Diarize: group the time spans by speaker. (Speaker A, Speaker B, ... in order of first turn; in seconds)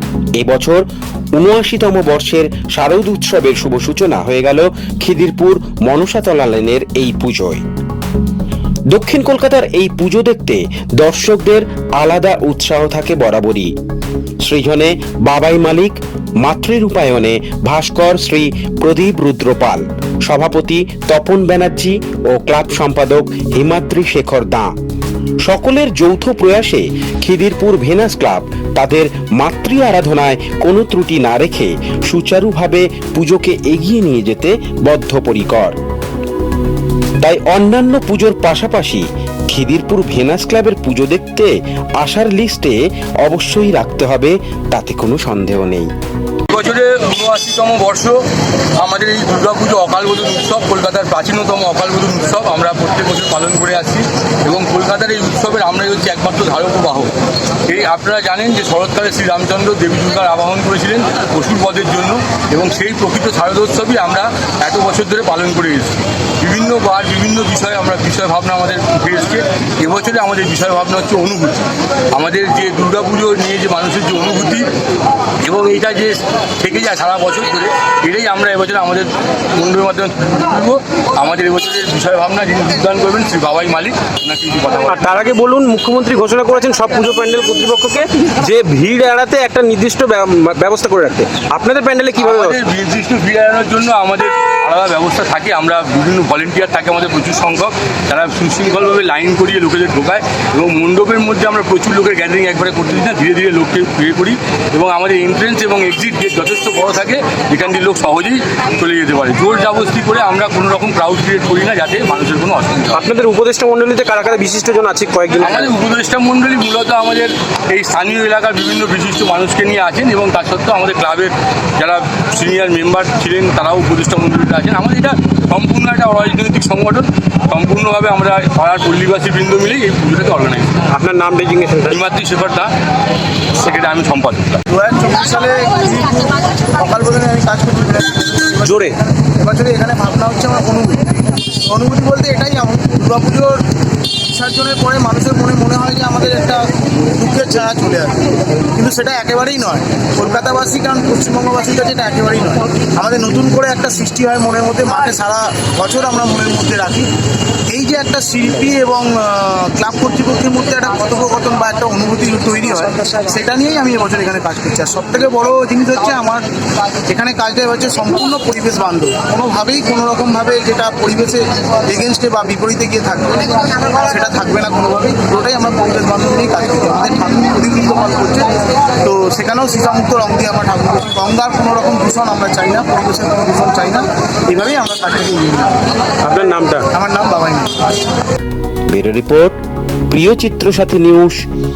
Speaker A: 0.4-7.6, 8.9-13.7, 14.4-24.7, 25.4-35.8, 37.2-45.9, 188.9-189.6, 190.1-191.4
Speaker B: 46.5-48.2, 48.8-57.1, 57.7-74.7, 75.4-85.1, 92.2-113.0, 115.4-130.7, 131.9-132.7, 133.6-134.6
Speaker C: 84.9-92.6, 112.9-115.7, 130.9-132.0, 138.7-139.0, 186.2-186.9
Speaker D: 134.7-141.0, 141.7-143.6, 144.2-157.1, 157.7-166.4, 167.1-185.8, 186.9-187.8